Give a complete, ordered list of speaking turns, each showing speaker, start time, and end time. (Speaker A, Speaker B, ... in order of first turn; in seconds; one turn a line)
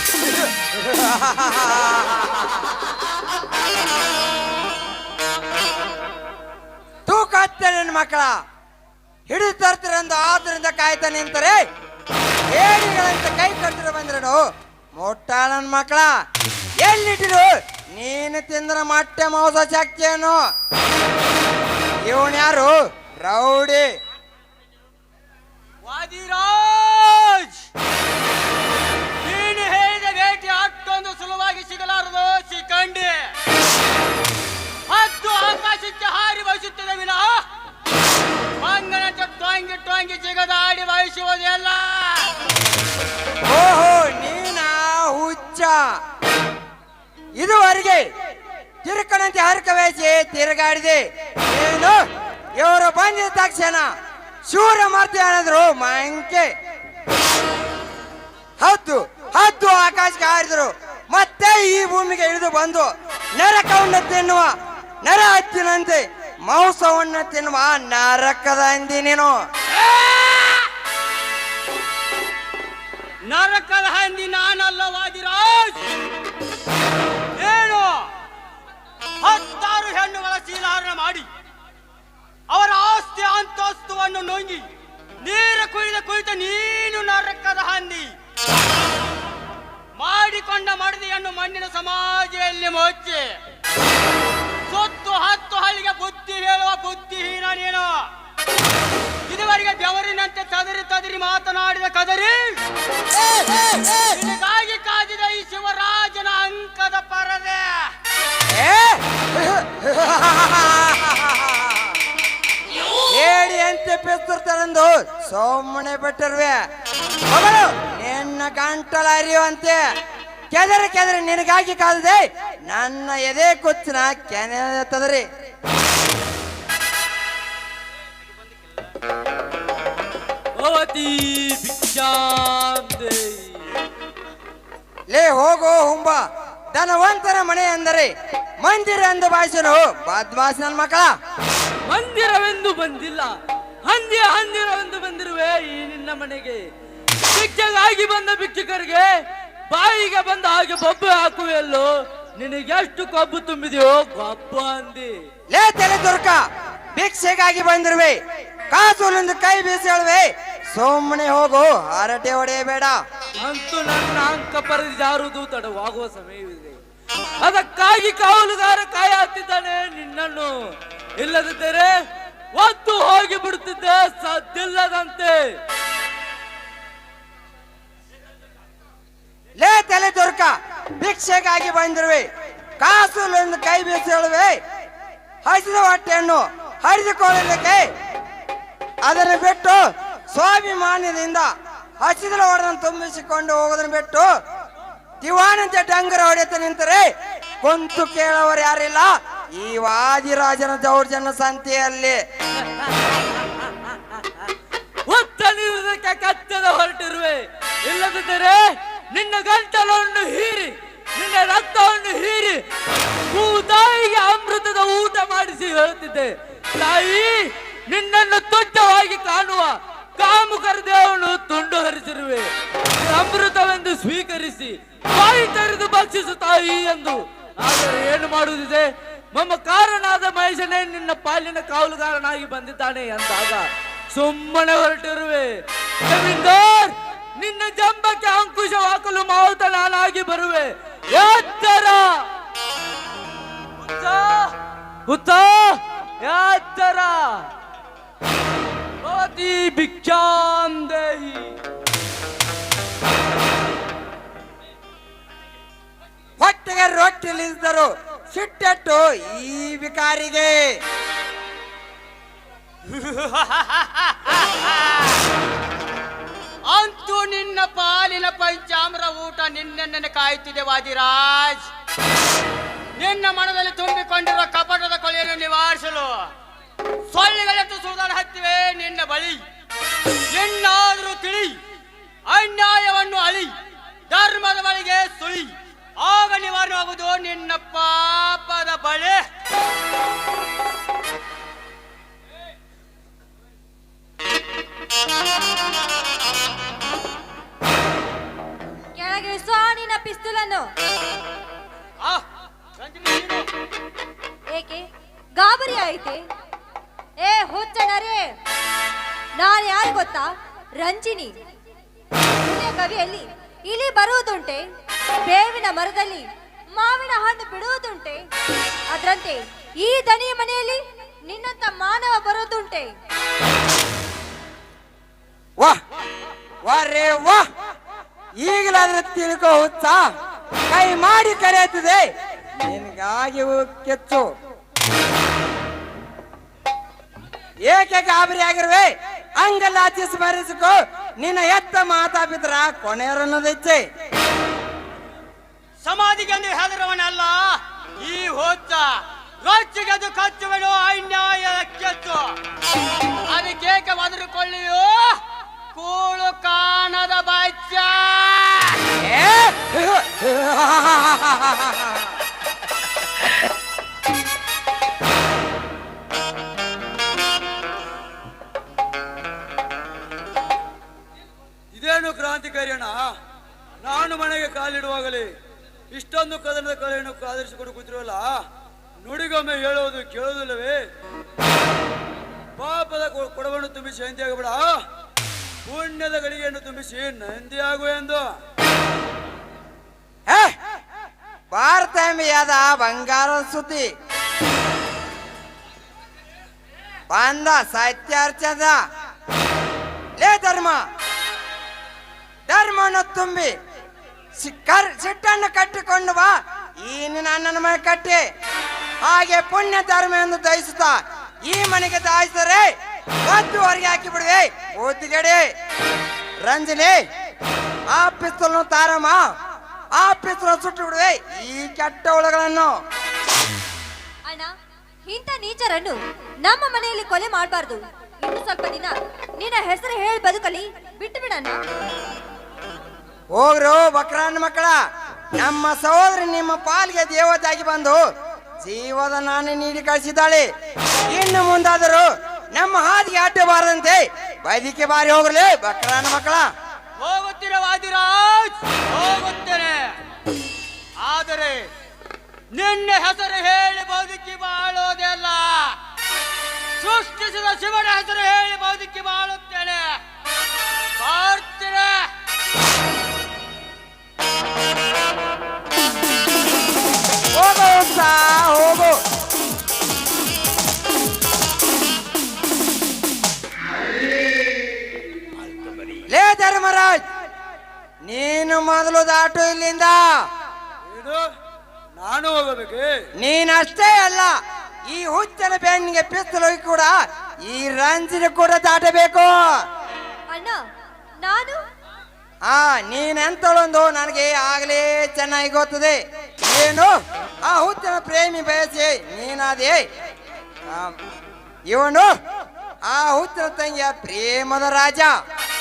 Speaker A: 0.7-2.6
Speaker A: 7.1-8.4
Speaker A: 9.3-11.6
Speaker A: 12.5-14.4
Speaker A: 14.9-16.1
Speaker A: 16.8-20.5
Speaker A: 22.1-23.9
Speaker B: 25.8-27.6
Speaker B: 29.2-33.3
Speaker B: 34.9-37.5
Speaker B: 38.6-42.3
Speaker A: 43.5-46.0
Speaker A: 47.4-48.1
Speaker A: 48.8-52.0
Speaker A: 52.6-53.9
Speaker A: 54.5-56.5
Speaker A: 58.6-69.4
Speaker B: 69.8-70.6
Speaker B: 73.3-75.8
Speaker B: 77.4-78.1
Speaker B: 79.2-81.3
Speaker B: 82.5-84.7
Speaker B: 85.2-88.1
Speaker B: 90.0-93.4
Speaker B: 94.7-98.1
Speaker B: 99.3-102.6
Speaker B: 103.7-107.9
Speaker A: 108.5-111.9
Speaker A: 113.1-116.6
Speaker A: 117.3-119.8
Speaker A: 120.5-125.2
Speaker C: 130.6-133.6
Speaker A: 135.1-136.2
Speaker A: 136.7-141.1
Speaker C: 141.9-143.3
Speaker C: 143.8-146.6
Speaker C: 147.3-149.1
Speaker C: 149.7-155.2
Speaker A: 155.5-156.4
Speaker A: 157.0-158.2
Speaker A: 158.7-163.0
Speaker C: 163.4-166.8
Speaker C: 167.4-171.9
Speaker C: 172.5-175.4
Speaker A: 179.6-182.3
Speaker A: 182.8-184.6
Speaker A: 185.4-187.8
Speaker A: 189.0-194.3
Speaker A: 195.2-197.1
Speaker A: 197.6-202.2
Speaker C: 205.1-212.6
Speaker C: 213.3-242.3
Speaker C: 243.8-244.6
Speaker C: 245.1-247.5
Speaker C: 249.0-251.6
Speaker A: 256.4-260.7
Speaker B: 262.9-264.9
Speaker B: 266.7-271.7
Speaker B: 273.0-276.3
Speaker B: 277.1-279.4
Speaker B: 280.3-281.6
Speaker B: 282.3-283.6
Speaker B: 284.1-289.2
Speaker D: 298.9-300.7
Speaker B: 302.8-303.5
Speaker D: 304.5-304.8
Speaker D: 305.4-306.2
Speaker D: 307.2-308.3
Speaker D: 309.4-311.4
Speaker D: 312.3-314.6
Speaker D: 315.3-318.2
Speaker D: 318.9-322.9
Speaker A: 326.6-327.4
Speaker A: 328.4-330.1
Speaker A: 330.7-332.1
Speaker A: 332.6-334.3
Speaker A: 337.7-343.8
Speaker B: 345.8-352.4
Speaker B: 353.3-355.2
Speaker B: 355.7-358.8
Speaker A: 359.0-362.0
Speaker E: 371.7-373.0
Speaker E: 373.8-375.3
Speaker E: 375.9-378.4
Speaker E: 379.0-380.8
Speaker E: 382.6-384.8
Speaker E: 385.6-388.3
Speaker A: 390.3-390.5
Speaker A: 391.5-393.9
Speaker A: 397.1-398.8
Speaker A: 400.2-400.8
Speaker A: 402.5-403.5
Speaker A: 404.4-408.2
Speaker A: 409.0-412.7
Speaker A: 413.3-415.4
Speaker A: 416.4-417.0
Speaker A: 417.9-419.2
Speaker A: 420.0-422.8
Speaker D: 424.3-424.5
Speaker D: 425.1-431.6
Speaker A: 433.3-434.8
Speaker A: 435.4-438.0
Speaker A: 438.6-440.5
Speaker A: 441.1-446.5
Speaker B: 447.0-450.0
Speaker B: 451.0-451.7
Speaker B: 452.5-455.8
Speaker B: 456.8-460.0
Speaker B: 461.0-462.1
Speaker A: 467.4-469.0
Speaker A: 476.1-477.0
Speaker A: 478.0-480.2
Speaker E: 480.9-481.2
Speaker E: 482.0-483.0
Speaker A: 483.2-484.3
Speaker A: 484.9-486.9
Speaker A: 487.4-489.6
Speaker D: 490.3-490.6
Speaker D: 491.2-491.6
Speaker A: 492.5-496.9
Speaker A: 497.4-499.8
Speaker A: 501.7-502.1
Speaker A: 502.9-505.1